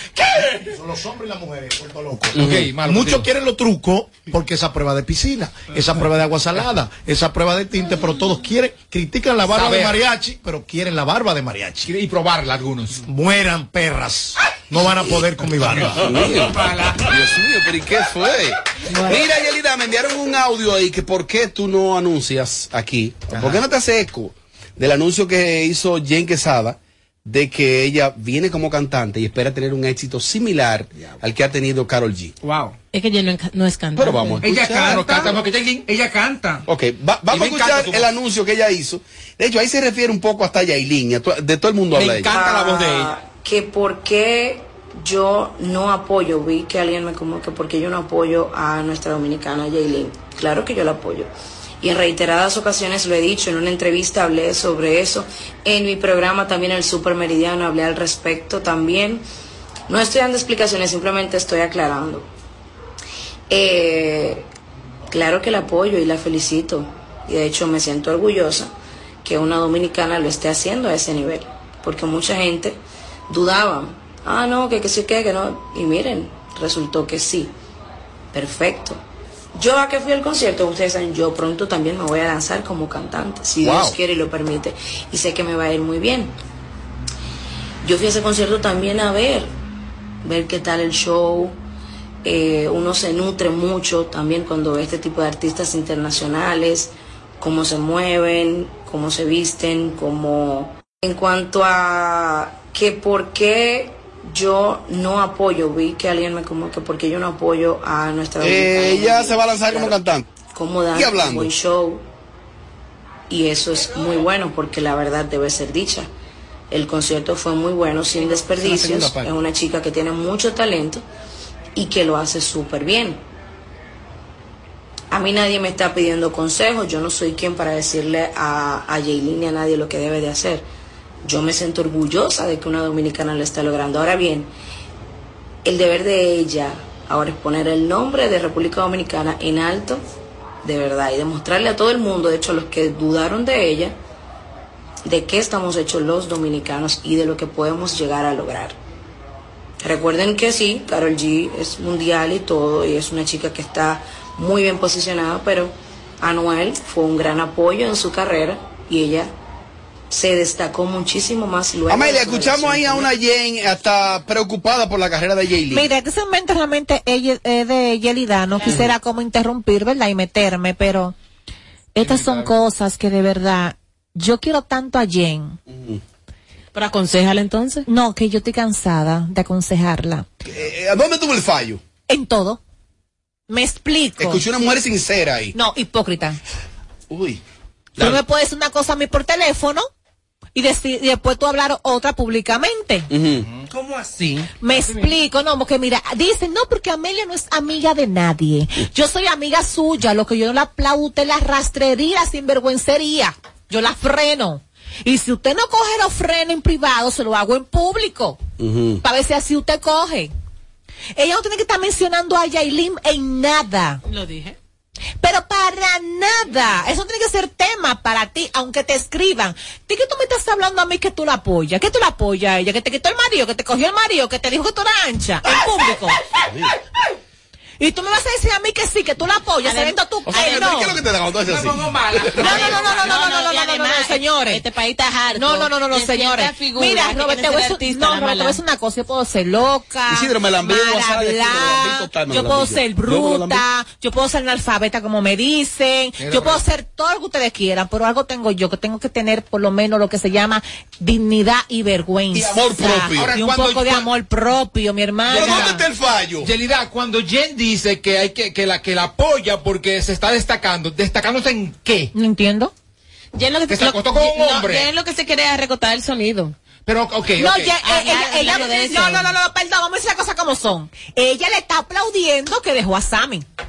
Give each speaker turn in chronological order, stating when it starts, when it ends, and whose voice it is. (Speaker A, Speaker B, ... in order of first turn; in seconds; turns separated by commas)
Speaker A: 0.6-11.9, Speaker B: 2.4-3.3, Speaker C: 2.4-2.7, Speaker B: 9.5-10.0, Speaker B: 11.9-13.0, Speaker A: 13.1-16.0, Speaker C: 15.7-32.3, Speaker D: 16.1-17.0, Speaker E: 18.9-19.2, Speaker D: 32.4-32.7, Speaker E: 32.9-34.4, Speaker C: 34.0-35.3, Speaker D: 34.4-36.6, Speaker B: 34.6-35.9, Speaker C: 36.7-42.3, Speaker B: 37.3-38.1, Speaker B: 41.9-43.1, Speaker F: 42.2-51.3, Speaker F: 51.8-59.2, Speaker F: 59.9-62.3, Speaker F: 63.5-64.5, Speaker F: 65.1-68.7, Speaker F: 69.2-77.5, Speaker F: 78.3-79.0, Speaker F: 79.5-86.3, Speaker C: 83.6-84.0, Speaker F: 87.8-89.5, Speaker F: 90.2-91.6, Speaker F: 92.2-112.0, Speaker C: 108.4-110.3, Speaker C: 110.9-111.5, Speaker F: 113.3-116.1, Speaker F: 116.7-121.0, Speaker F: 121.8-123.2, Speaker F: 125.1-130.7, Speaker F: 131.2-134.5, Speaker F: 135.7-140.0, Speaker F: 140.6-144.0, Speaker F: 145.1-148.8, Speaker F: 149.8-159.3, Speaker F: 160.1-163.1, Speaker C: 161.9-165.9, Speaker G: 165.7-171.2, Speaker G: 171.9-175.6, Speaker B: 172.0-172.5, Speaker C: 175.7-176.0, Speaker E: 176.7-177.8, Speaker G: 177.9-180.3, Speaker C: 180.5-181.8, Speaker G: 182.1-182.6, Speaker G: 183.5-184.4, Speaker C: 184.2-185.6, Speaker G: 185.6-186.4, Speaker C: 187.1-187.4, Speaker G: 188.0-189.9, Speaker G: 190.6-193.1, Speaker C: 193.1-193.5, Speaker D: 193.7-195.1, Speaker G: 194.6-208.5, Speaker C: 208.6-209.0, Speaker G: 209.0-210.3, Speaker G: 211.2-214.0, Speaker E: 214.1-214.6, Speaker G: 215.2-226.2, Speaker G: 227.8-230.9, Speaker E: 229.7-230.9, Speaker C: 230.3-232.7, Speaker D: 231.4-233.2, Speaker G: 232.4-234.7, Speaker E: 232.4-238.6, Speaker G: 235.3-255.8, Speaker C: 240.1-243.6, Speaker B: 246.2-246.6, Speaker C: 252.3-253.3, Speaker B: 253.2-254.1, Speaker B: 255.3-255.8, Speaker C: 255.3-256.5, Speaker B: 256.4-262.1, Speaker G: 262.1-262.7, Speaker E: 263.4-266.6, Speaker B: 263.7-264.9, Speaker B: 266.9-267.8, Speaker G: 267.4-273.4, Speaker E: 267.8-269.3